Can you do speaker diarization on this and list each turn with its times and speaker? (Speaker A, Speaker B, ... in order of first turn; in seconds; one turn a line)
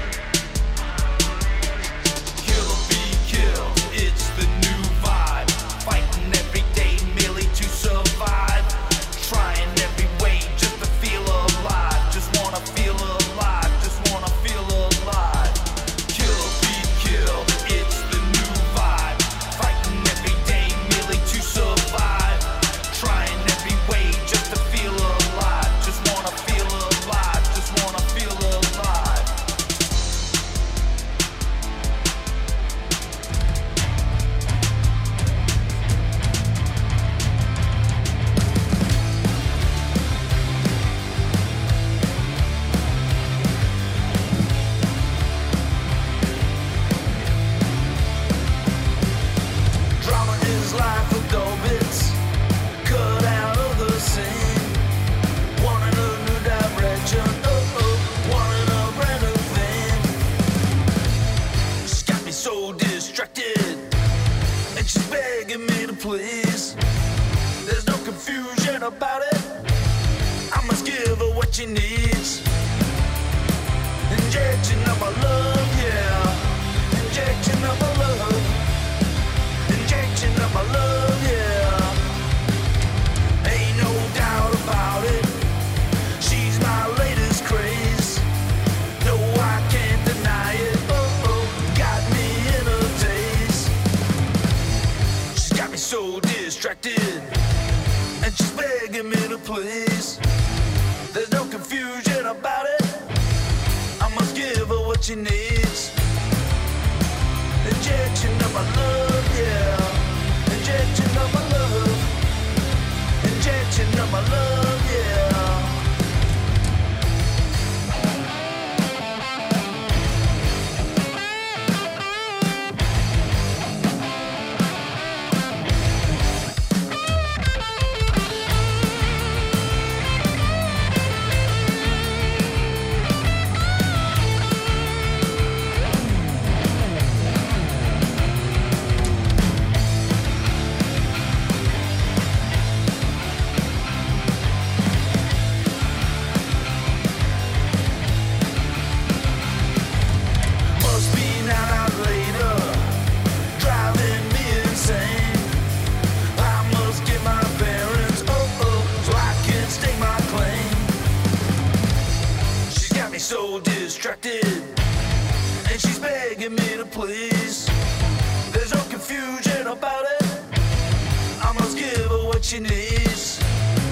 Speaker A: 2.4-29.3
Speaker A: 50.0-52.2
Speaker A: 52.8-54.8
Speaker A: 55.5-60.1
Speaker A: 61.8-63.9
Speaker A: 64.7-66.8
Speaker A: 67.6-69.6
Speaker A: 70.5-72.4
Speaker A: 74.1-78.6
Speaker A: 79.7-82.0
Speaker A: 83.4-85.5
Speaker A: 86.2-88.2
Speaker A: 89.0-93.7
Speaker A: 95.3-97.3
Speaker A: 98.2-100.2
Speaker A: 101.1-103.0
Speaker A: 104.0-105.9
Speaker A: 107.6-112.1
Speaker A: 113.2-115.8
Speaker A: 150.7-153.0
Speaker A: 153.6-155.5
Speaker A: 156.3-160.9
Speaker A: 162.7-164.8
Speaker A: 165.6-167.7
Speaker A: 168.5-170.4
Speaker A: 171.4-173.4